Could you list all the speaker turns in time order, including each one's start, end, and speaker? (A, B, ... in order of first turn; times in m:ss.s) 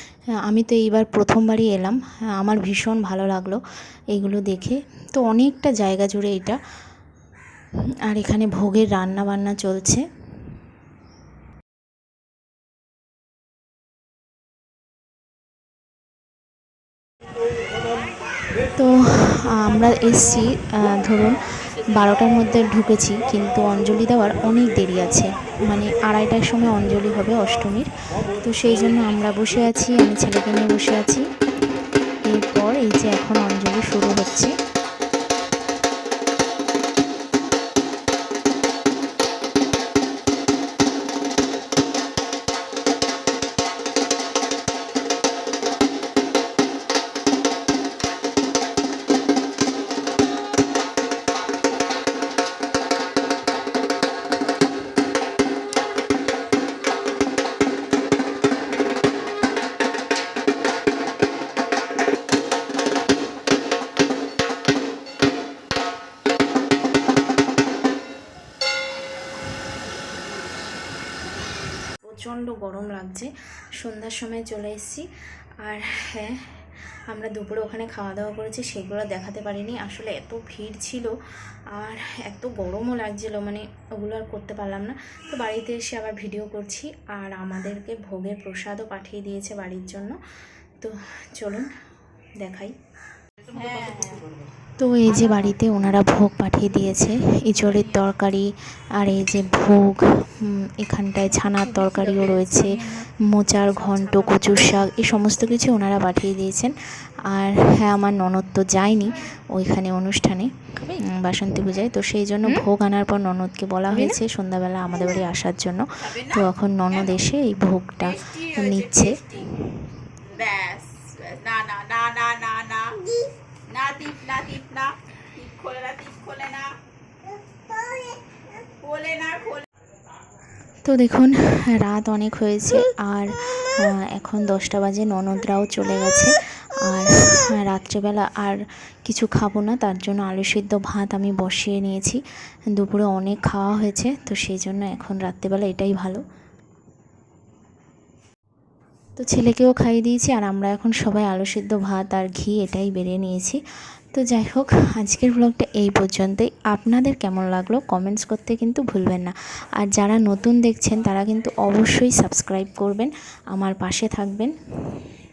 0:00.5-0:03.6 A
0:04.1-0:06.6 A
0:08.1-0:10.0 A
0:18.8-0:21.4 A
0:21.9-0:27.9 A
0:28.4-0:31.2 A
0:32.2-0:34.5 A
1:12.0-1:15.1 A
1:15.6-1:16.4 A
1:17.1-1:21.1 A
1:21.8-1:30.2 A
1:30.8-1:31.7 A
1:32.4-1:32.7 A
1:33.5-1:34.4 B
1:34.8-1:46.8 A
1:35.2-1:35.6 B
1:47.3-1:59.4 A
1:56.0-1:56.5 B
1:58.0-1:59.6 B
2:00.2-2:06.8 B
2:08.5-2:09.7 B
2:10.8-2:22.2 A
2:22.7-2:26.2 A
2:29.2-2:33.6 A
2:34.1-2:45.0 A